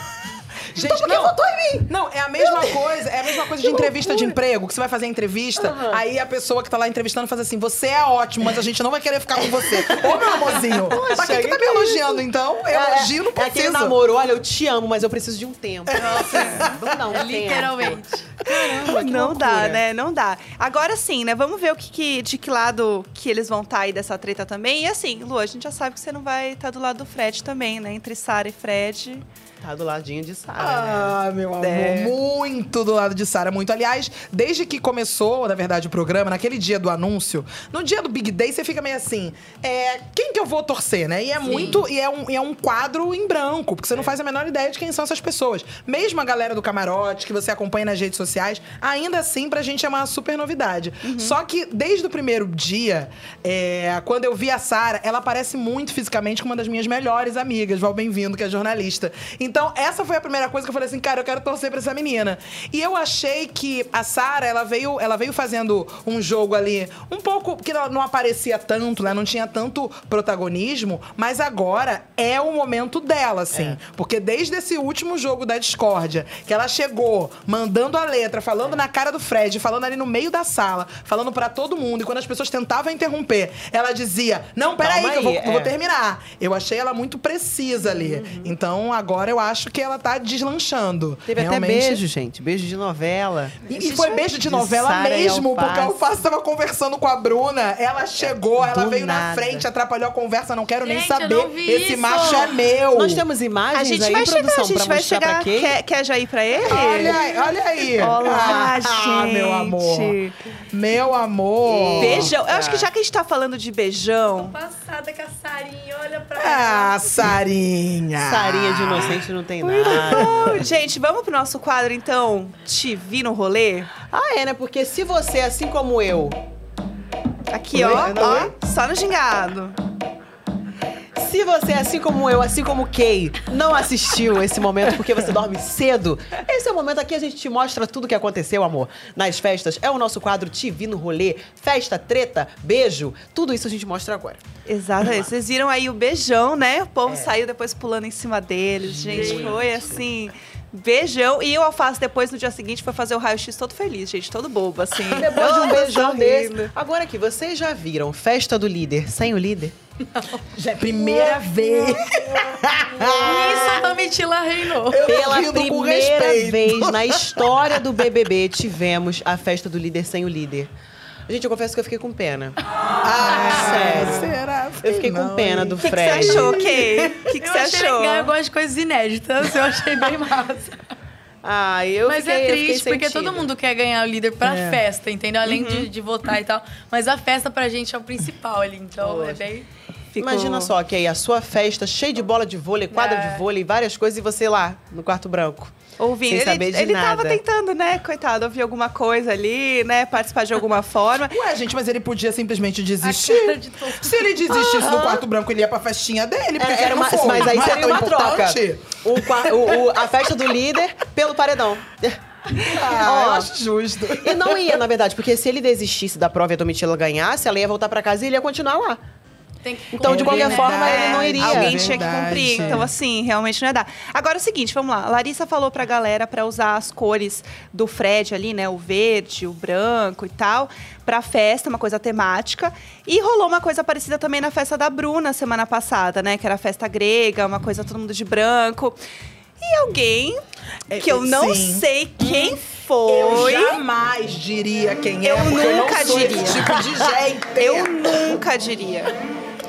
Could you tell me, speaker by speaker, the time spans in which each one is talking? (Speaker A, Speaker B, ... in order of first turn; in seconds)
Speaker A: 0.7-14.0, 15.9-16.7, 30.6-92.0, 93.7-103.2, 106.6-110.2, 110.7-112.3, 116.3-119.2, 127.7-128.5, 154.9-155.2, 160.5-163.7, 164.8-168.1, 173.0-177.2, 184.4-184.8, 201.3-209.8, 212.6-214.8, 220.0-222.9, 240.9-248.4
Speaker B: 0.7-1.9, 2.4-4.3, 5.6-6.0, 9.4-19.8, 29.6-31.1, 73.5-73.8, 84.8-85.7, 87.8-88.5, 91.3-96.0, 98.2-99.7, 102.9-105.8, 106.7-107.2, 111.6-112.9, 118.2-120.5, 124.1-126.4, 127.7-128.5, 131.2-144.4, 148.8-150.0, 155.1-159.7, 163.0-163.9, 165.0-170.7, 171.3-172.6, 173.2-176.6, 181.4-183.5, 189.0-189.4, 190.2-195.8, 196.3-197.4, 204.5-205.2, 206.6-213.5, 214.2-219.0, 219.9-222.8
Speaker C: 16.0-16.6, 18.8-29.2, 31.6-32.1, 51.0-51.4, 103.7-107.2, 108.0-110.3, 112.0-114.5, 119.6-123.9, 127.5-129.8, 144.7-156.7, 175.8-178.3, 185.4-185.9, 190.1-190.7, 196.0-201.4, 220.8-239.0, 239.6-240.4, 240.9-243.8, 245.2-246.7, 247.6-249.2
Speaker D: 17.1-18.7, 41.4-41.8, 100.8-102.5, 114.3-117.0, 149.1-149.6, 160.1-160.4, 160.9-161.8, 163.2-165.1, 177.4-180.8, 182.1-189.7, 192.9-193.4, 203.0-204.2, 219.6-221.0